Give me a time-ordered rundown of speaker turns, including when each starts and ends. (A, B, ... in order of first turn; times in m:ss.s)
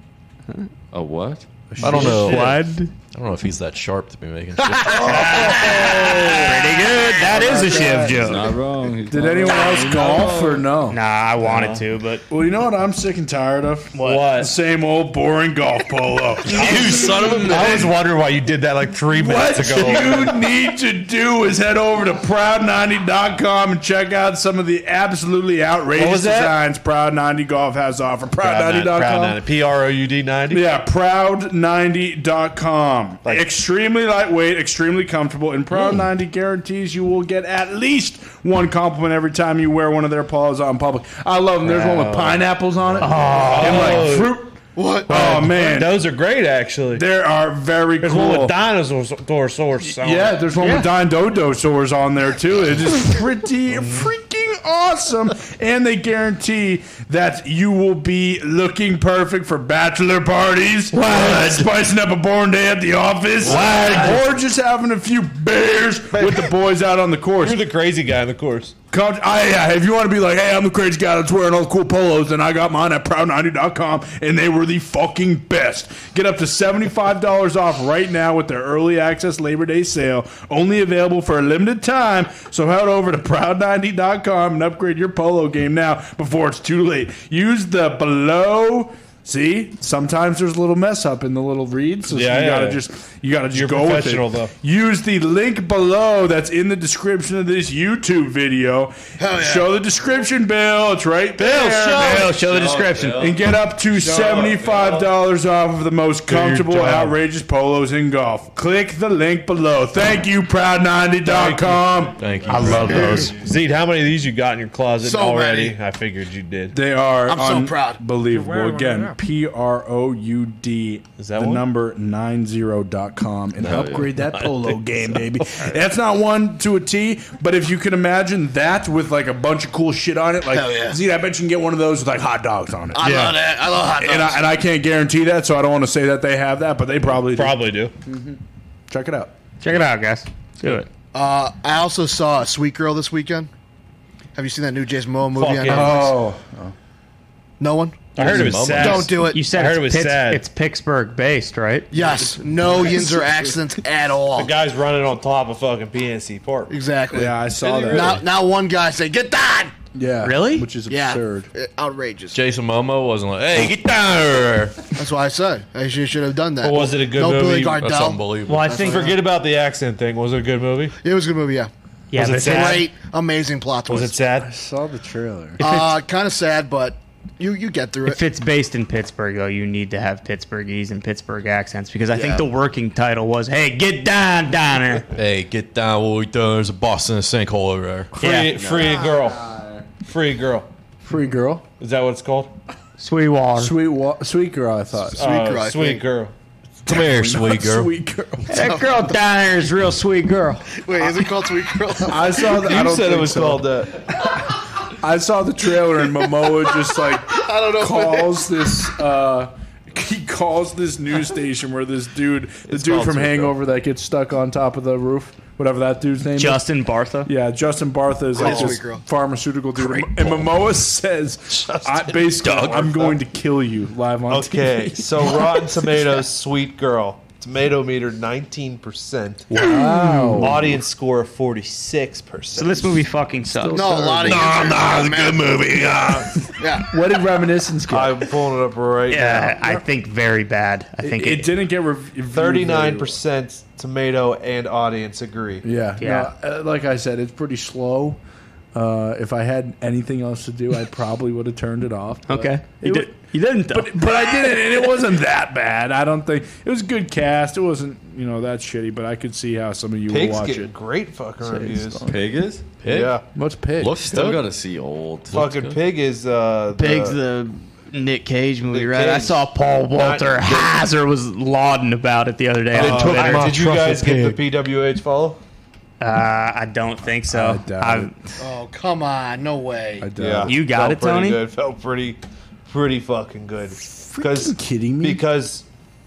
0:00.9-0:01.5 A
0:01.7-0:02.4 B
0:01.8-0:05.4 C
0:01.8-0:02.9 D
0:04.8-0:06.5 E
0:04.9-0:06.4 B
0:05.1-0:06.4 F
0:06.3-0:08.5 D
0:07.3-0:08.5 B
0:08.1-0:10.7 A
0:09.1-0:11.0 B
0:10.9-0:12.2 D
0:11.4-0:11.8 F
0:12.3-0:17.5 B
0:13.9-0:14.3 D
0:14.0-0:14.5 F
0:16.5-0:17.9 C
0:16.7-0:20.4 F
0:19.1-0:29.4 B
0:26.0-0:26.6 F
0:28.4-0:30.6 F
0:30.5-0:46.0 B
0:41.7-0:42.3 D
0:43.0-0:44.2 D
0:43.5-0:44.4 F
0:44.8-0:45.1 E
0:45.1-0:47.0 F
0:46.9-0:48.6 B
0:48.0-0:50.4 F
0:49.8-1:07.6 B
0:50.6-0:50.9 D
0:53.7-0:54.1 F
1:00.9-1:01.7 D
1:03.4-1:04.3 F
1:06.1-1:06.5 F
1:07.4-1:08.7 F
1:08.9-1:42.5 B
1:32.1-1:32.8 F
1:33.5-1:34.5 F
1:39.2-1:39.8 E
1:41.4-1:43.3 D
1:42.2-1:43.4 A
1:43.2-1:53.2 B
1:43.9-1:45.1 F
1:46.3-1:47.2 F
1:51.3-1:52.1 F
1:52.2-1:53.3 C
1:52.5-1:53.3 D
1:53.3-1:56.8 F
1:55.0-1:55.8 E
1:56.7-2:19.3 B
1:57.2-1:58.0 E
1:58.3-1:59.1 F
2:01.2-2:01.7 F
2:03.6-2:04.1 A
2:04.3-2:05.7 F
2:10.5-2:11.0 E
2:13.0-2:14.5 E
2:17.2-2:17.9 F
2:19.6-2:20.9 D
2:21.1-2:23.5 E
2:24.4-2:26.2 E
2:25.4-2:26.1 F
2:25.7-2:26.7 B
2:27.6-2:29.5 E
2:28.2-2:30.4 F
2:28.2-2:29.2 C
2:29.3-2:31.9 D
2:31.9-2:34.5 E
2:31.9-2:33.6 B
2:34.4-2:36.7 F
2:36.7-2:39.7 E
2:37.1-2:38.2 B
2:39.9-2:41.5 B
2:40.2-2:40.7 D
2:40.9-2:42.4 E
2:42.3-2:45.0 C
2:45.0-2:49.2 E
2:46.6-2:47.9 F
2:47.8-2:48.9 C
2:48.5-2:49.1 D
2:48.7-2:51.0 F
2:51.0-2:54.2 E
2:52.1-2:52.8 D
2:52.2-2:52.9 F
2:53.9-2:54.5 F
2:54.4-2:55.6 B
2:55.6-2:58.2 E
2:55.6-2:55.9 D
2:58.0-3:05.1 D
3:02.1-3:02.5 E
3:05.2-3:08.1 C
3:08.2-3:09.5 F
3:08.2-3:08.5 D
3:08.5-3:09.1 E
3:10.0-3:10.7 F
3:11.0-3:11.6 B
3:11.8-3:12.6 F
3:13.0-3:13.8 D
3:13.6-3:15.2 B
3:15.1-3:16.1 E
3:15.2-3:16.3 F
3:16.9-3:17.9 C
3:16.9-3:18.6 B
3:18.5-3:20.7 D
3:18.6-3:19.0 E
3:20.8-3:22.4 E
3:22.1-3:23.7 B
3:22.4-3:24.0 F
3:24.9-3:36.6 B
3:27.3-3:28.5 E
3:32.7-3:33.5 F
3:36.4-3:37.3 D
3:37.2-3:45.7 B
3:38.3-3:39.0 E
3:42.4-3:42.9 C
3:42.7-3:43.0 F
3:44.3-3:49.5 F
3:49.5-3:50.8 B
3:50.4-3:53.0 F
3:52.6-3:54.5 D
3:53.7-3:56.1 E
3:54.3-3:58.2 B
3:54.9-3:56.0 C
3:56.6-3:56.9 E
3:57.9-3:59.6 F
3:59.1-4:01.5 D
4:01.0-4:03.2 B
4:02.3-4:05.6 F
4:05.6-4:08.2 B
4:06.0-4:06.3 D
4:08.7-4:13.1 B
4:12.3-4:14.0 D
4:13.7-4:20.7 B
4:20.1-4:22.1 F
4:21.4-4:22.2 B
4:22.1-4:22.8 A
4:22.8-4:23.2 C
4:22.9-4:23.2 F
4:23.3-4:24.0 B
4:23.8-4:24.5 C
4:24.0-4:25.4 A
4:25.3-4:25.8 C
4:25.3-4:27.2 F
4:26.8-4:33.5 D
4:28.7-4:30.6 F
4:32.7-4:34.4 C
4:32.8-4:35.4 F
4:36.0-4:38.1 D
4:37.3-4:38.1 B
4:38.4-4:40.1 E
4:40.0-4:40.6 B
4:40.2-4:45.6 F
4:40.5-4:41.4 D
4:43.9-4:45.2 B